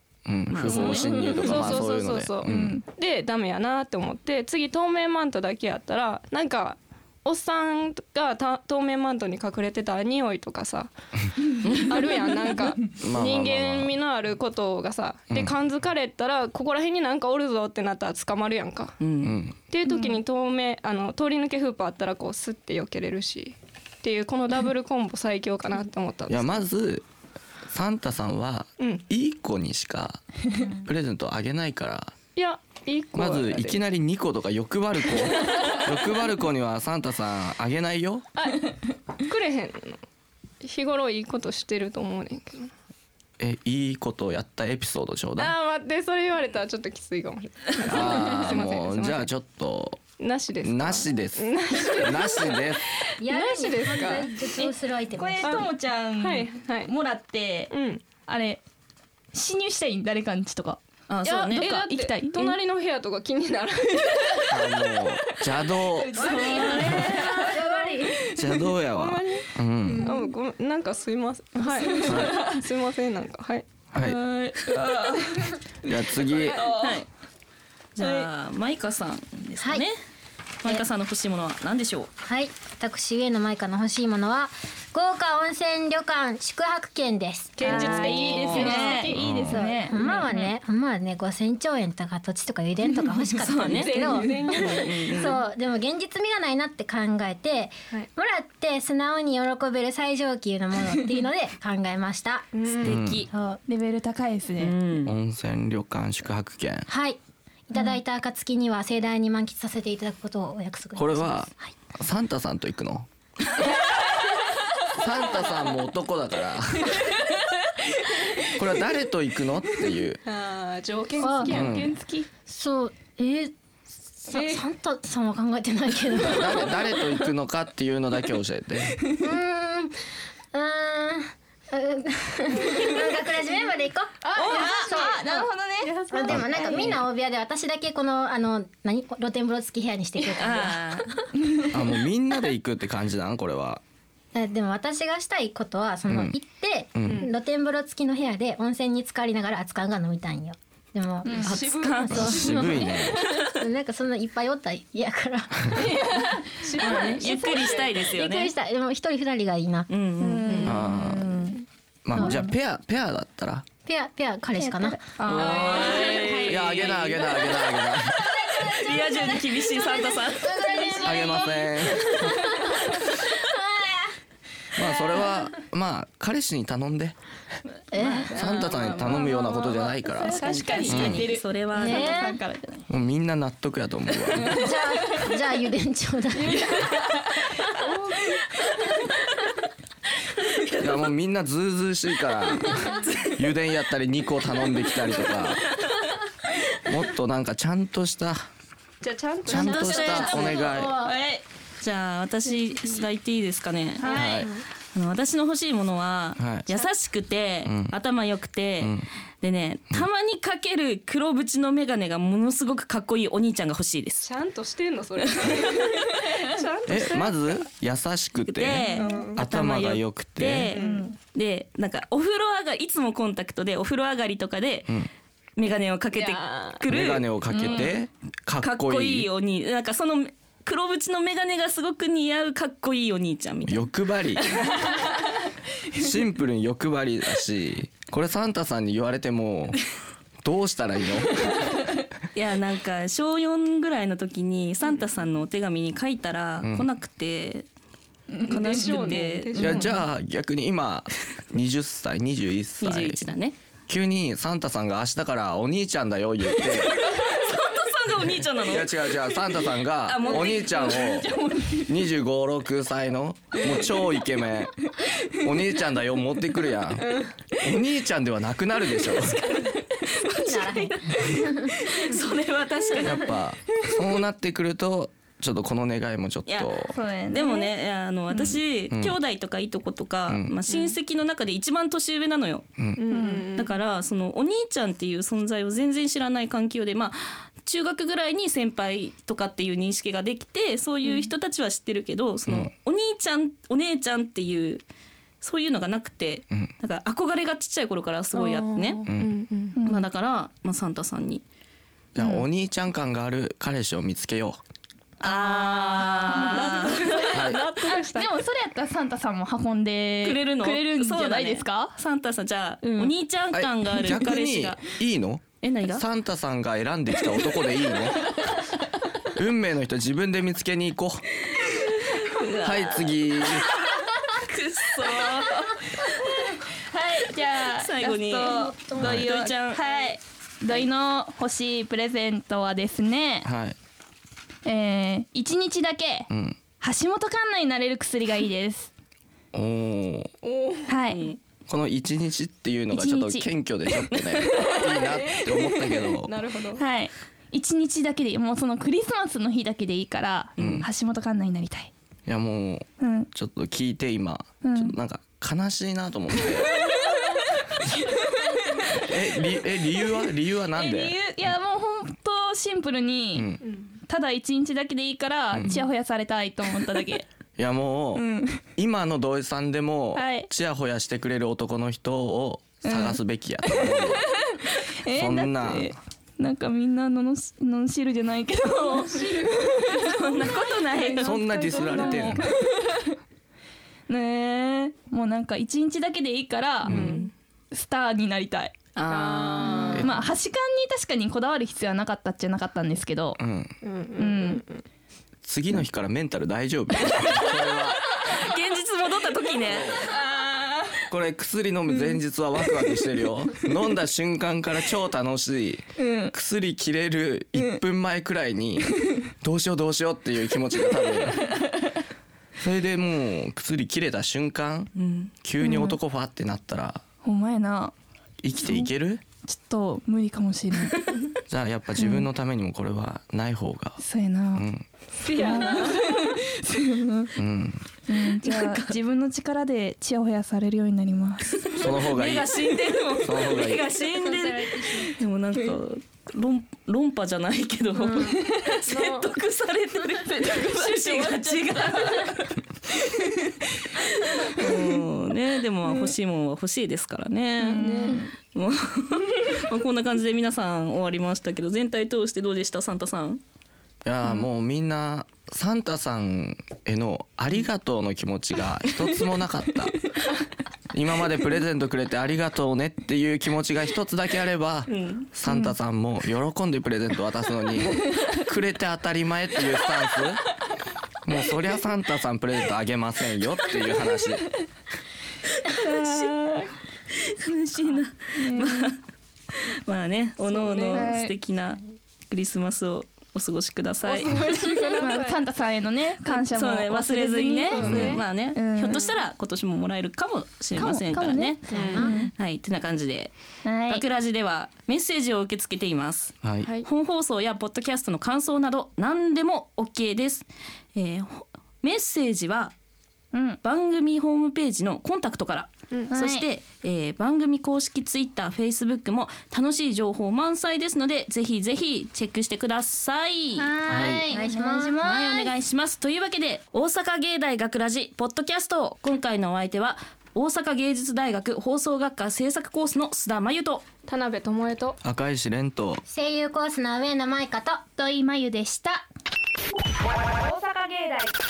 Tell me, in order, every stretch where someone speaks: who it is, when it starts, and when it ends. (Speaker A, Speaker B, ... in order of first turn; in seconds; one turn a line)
Speaker A: 0.2-2.8
Speaker B: 0.5-1.8
Speaker C: 0.7-1.8
Speaker D: 0.7-19.0
Speaker C: 2.4-2.8
Speaker B: 11.6-12.1
Speaker A: 13.0-13.9
Speaker B: 19.0-19.4
Speaker A: 19.2-19.6
Speaker D: 19.7-26.6
Speaker C: 19.9-20.2
Speaker A: 26.3-27.0
Speaker A: 27.6-32.1
Speaker D: 32.3-33.8
Speaker A: 33.1-38.2
Speaker D: 35.3-35.9
Speaker D: 38.4-40.0
Speaker D: 40.6-42.7
Speaker A: 43.4-45.5
Speaker D: 45.4-49.3
Speaker A: 47.8-50.0
Speaker D: 50.2-54.7
Speaker A: 50.6-52.8
Speaker E: 53.2-55.7
Speaker C: 54.4-57.7
Speaker D: 55.4-56.9
Speaker D: 57.7-58.0
Speaker C: 58.2-58.6
Speaker C: 59.3-62.6
Speaker B: 61.1-61.8
Speaker D: 61.5-64.6
Speaker C: 64.0-65.0
Speaker A: 64.5-66.3
Speaker C: 65.8-68.6
Speaker E: 66.2-68.2
Speaker D: 66.2-68.1
Speaker B: 66.4-67.4
Speaker A: 68.3-70.1
Speaker D: 68.9-73.7
Speaker C: 70.0-70.3
Speaker C: 71.6-72.6
Speaker A: 72.0-72.3
Speaker A: 73.9-74.2
Speaker C: 74.0-77.0
Speaker A: 75.8-76.6
Speaker D: 76.3-76.8
Speaker B: 76.8-77.1
Speaker B: 78.0-80.0
Speaker C: 78.0-78.3
Speaker E: 79.6-79.8
Speaker B: 80.6-82.1
Speaker E: 82.2-103.6
Speaker D: 87.6-89.2
Speaker B: 87.6-88.9
Speaker C: 87.6-90.3
Speaker A: 89.1-89.6
Speaker B: 90.1-90.5
Speaker B: 93.4-95.4
Speaker D: 93.6-95.3
Speaker D: 102.5-103.0
Speaker B: 102.8-103.3
Speaker A: 102.8-103.2
Speaker C: 103.7-104.8
Speaker B: 104.6-105.1
Speaker A: 105.0-106.9
Speaker E: 106.9-111.5
Speaker A: 111.0-113.1
Speaker A: 114.9-117.1
Speaker C: 117.0-118.5
Speaker A: 118.5-120.2
Speaker D: 120.2-121.8
Speaker E: 121.2-121.6
Speaker C: 121.3-122.3
Speaker A: 121.5-121.9
Speaker E: 122.5-123.5
Speaker E: 124.1-127.0
Speaker D: 124.3-124.7
Speaker A: 126.2-129.0
Speaker E: 129.1-129.9
Speaker E: 130.5-135.5
Speaker D: 132.6-133.1
Speaker D: 134.2-136.9
Speaker B: 134.3-134.8
Speaker C: 134.4-136.9
Speaker E: 136.1-141.8
Speaker A: 136.3-137.0
Speaker B: 140.2-141.1
Speaker A: 141.7-143.8
Speaker E: 144.3-156.2
Speaker A: 146.1-146.4
Speaker A: 146.9-147.2
Speaker D: 147.1-147.3
Speaker C: 151.2-151.6
Speaker D: 151.3-152.9
Speaker B: 151.4-153.7
Speaker A: 152.1-153.2
Speaker C: 155.7-156.7
Speaker D: 156.5-157.9
Speaker E: 156.8-159.9
Speaker B: 156.8-158.5
Speaker B: 159.9-160.8
Speaker C: 160.2-161.6
Speaker E: 160.4-160.8
Speaker A: 160.7-161.4
Speaker A: 162.0-163.7
Speaker E: 162.1-162.4
Speaker C: 162.2-162.5
Speaker E: 163.8-166.3
Speaker C: 164.5-167.2
Speaker D: 165.2-166.3
Speaker B: 165.2-170.8
Speaker A: 166.4-168.3
Speaker E: 168.2-174.1
Speaker A: 171.0-172.3
Speaker C: 172.4-172.7
Speaker A: 174.8-177.1
Speaker E: 177.9-178.6
Speaker D: 178.0-180.8
Speaker A: 178.3-181.2
Speaker C: 179.1-179.4
Speaker C: 180.1-182.9
Speaker B: 180.3-182.3
Speaker E: 180.9-182.4
Speaker A: 182.9-184.7
Speaker C: 184.4-185.2
Speaker E: 184.4-187.0
Speaker C: 186.4-187.8
Speaker D: 187.8-188.3
Speaker B: 190.4-191.1
Speaker A: 190.8-195.6
Speaker A: 196.8-198.5
Speaker D: 199.0-200.5
Speaker A: 199.4-201.0
Speaker B: 199.5-200.8
Speaker E: 199.5-201.2
Speaker C: 201.0-201.4
Speaker B: 201.8-214.3
Speaker C: 204.0-204.5
Speaker A: 204.1-204.5
Speaker A: 206.4-206.7
Speaker A: 207.6-207.9
Speaker A: 208.8-209.1
Speaker D: 214.2-217.6
Speaker B: 215.2-215.8
Speaker A: 216.9-220.7
Speaker B: 218.5-225.1
Speaker C: 218.9-219.2
Speaker D: 218.9-219.4
Speaker D: 220.7-221.1
Speaker C: 220.8-221.2
Speaker B: 225.6-227.8
Speaker D: 226.2-226.8
Speaker A: 226.9-229.3
Speaker C: 227.5-227.9
Speaker B: 228.6-233.9
Speaker A: 233.7-234.6
Speaker B: 234.4-234.7
Speaker A: 235.9-239.8
Speaker A: 240.4-241.7
Speaker B: 242.3-247.7
Speaker A: 246.6-246.9
Speaker C: 248.3-250.0
Speaker B: 248.4-249.8
Speaker D: 248.5-250.0
Speaker A: 249.6-253.3
Speaker B: 252.8-253.6
Speaker A: 253.9-257.1
Speaker B: 256.6-259.2
Speaker A: 258.6-269.5
Speaker B: 260.1-261.0
Speaker D: 260.3-261.1
Speaker C: 260.5-261.9
Speaker C: 265.0-265.4
Speaker D: 267.0-267.3
Speaker C: 268.9-272.2
Speaker D: 271.0-271.4
Speaker B: 271.6-273.3
Speaker A: 273.0-276.9
Speaker B: 276.5-282.7
Speaker C: 276.9-277.7
Speaker A: 278.9-279.2
Speaker A: 280.3-280.6
Speaker D: 280.7-280.9
Speaker D: 283.0-283.7
Speaker C: 283.1-283.5
Speaker B: 283.6-294.8
Speaker B: 295.4-299.1
Speaker D: 298.3-299.8
Speaker C: 299.7-300.1
Speaker B: 299.8-301.4
Speaker A: 302.1-304.6
Speaker C: 305.2-311.9
Speaker B: 305.2-307.1
Speaker D: 306.2-308.3
Speaker A: 307.3-307.6
Speaker B: 310.2-314.8
Speaker C: 312.8-313.1
Speaker A: 313.5-318.4
Speaker B: 315.6-316.0
Speaker A: 319.3-321.3
Speaker B: 321.7-326.5
Speaker A: 322.6-323.8
Speaker C: 326.3-333.5
Speaker B: 327.6-329.8
Speaker E: 328.4-329.0
Speaker A: 329.0-329.3
Speaker A: 333.4-333.8
Speaker C: 334.6-338.9
Speaker A: 336.3-336.6
Speaker A: 339.5-340.3
Speaker D: 340.4-341.0
Speaker C: 340.9-341.3
Speaker B: 341.1-341.4
Speaker A: 341.7-346.3
Speaker C: 342.9-343.5
Speaker C: 344.4-345.7
Speaker D: 344.8-346.8
Speaker C: 346.8-351.9
Speaker B: 350.6-350.9
Speaker A: 350.6-350.9
Speaker A: 352.3-356.9
Speaker C: 353.0-353.3
Speaker C: 354.6-354.9
Speaker C: 356.4-363.5
Speaker D: 358.1-359.0
Speaker A: 359.0-361.2
Speaker A: 363.3-363.6
Speaker D: 363.6-364.0
Speaker C: 364.1-367.2
Speaker A: 365.5-365.8
Speaker A: 367.6-368.2
Speaker C: 368.1-368.6
Speaker A: 368.8-374.4
Speaker C: 370.1-370.5
Speaker C: 372.8-380.4
Speaker A: 375.1-375.9
Speaker D: 378.7-382.6
Speaker B: 380.0-381.4
Speaker C: 381.0-383.2
Speaker A: 381.1-382.4
Speaker C: 384.1-387.2
Speaker D: 386.9-387.3
Speaker B: 386.9-387.2
Speaker A: 386.9-387.2
Speaker C: 387.7-388.8
Speaker B: 388.9-390.1
Speaker D: 389.1-390.1
Speaker C: 389.6-393.4
Speaker A: 389.9-390.2
Speaker A: 393.4-393.7
Speaker D: 393.8-394.8
Speaker C: 394.2-394.6
Speaker A: 395.4-398.1
Speaker B: 397.6-400.0
Speaker A: 399.6-400.1
Speaker D: 400.1-400.9
Speaker A: 401.1-411.7
Speaker C: 406.0-406.3
Speaker C: 411.5-411.9
Speaker A: 412.6-417.0
Speaker B: 414.9-415.3
Speaker C: 415.6-416.0
Speaker C: 417.2-417.9
Speaker A: 418.4-419.2
Speaker C: 418.6-418.9
Speaker C: 419.4-421.0
Speaker A: 421.5-424.0
Speaker C: 422.0-422.3
Speaker C: 424.0-424.7
Speaker A: 424.5-424.8
Speaker D: 425.2-426.4
Speaker C: 425.3-427.3
Speaker A: 427.4-427.9
Speaker C: 428.1-431.8
Speaker B: 428.4-429.0
Speaker B: 431.5-442.6
Speaker A: 431.7-432.5
Speaker A: 433.2-433.9
Speaker D: 434.1-435.2
Speaker D: 438.0-439.3
Speaker C: 438.3-438.8
Speaker D: 440.6-442.0
Speaker C: 443.1-445.0
Speaker B: 444.4-453.4
Speaker C: 447.6-448.3
Speaker D: 447.8-448.2
Speaker A: 454.0-460.1
Speaker A: 460.9-470.4
Speaker B: 464.9-465.3
Speaker A: 471.2-474.5
Speaker C: 475.7-476.7
Speaker B: 475.8-476.3
Speaker B: 477.1-479.0
Speaker C: 477.7-478.9
Speaker B: 479.5-485.0
Speaker D: 480.5-481.1
Speaker C: 480.9-481.3
Speaker D: 484.0-485.4
Speaker C: 484.9-489.1
Speaker B: 486.2-493.3
Speaker D: 487.7-488.2
Speaker A: 487.8-488.2
Speaker C: 490.7-492.3
Speaker E: 491.7-492.1
Speaker D: 491.7-492.1
Speaker C: 493.6-494.0
Speaker B: 493.9-502.7
Speaker A: 496.4-496.7
Speaker C: 503.3-503.6
Speaker B: 503.6-513.7
Speaker C: 506.1-506.4
Speaker C: 513.6-515.5
Speaker E: 513.9-515.5
Speaker A: 513.9-514.2
Speaker B: 515.0-523.8
Speaker D: 524.0-525.0
Speaker A: 525.0-526.0
Speaker E: 526.1-527.8
Speaker C: 528.0-529.0
Speaker C: 530.4-531.3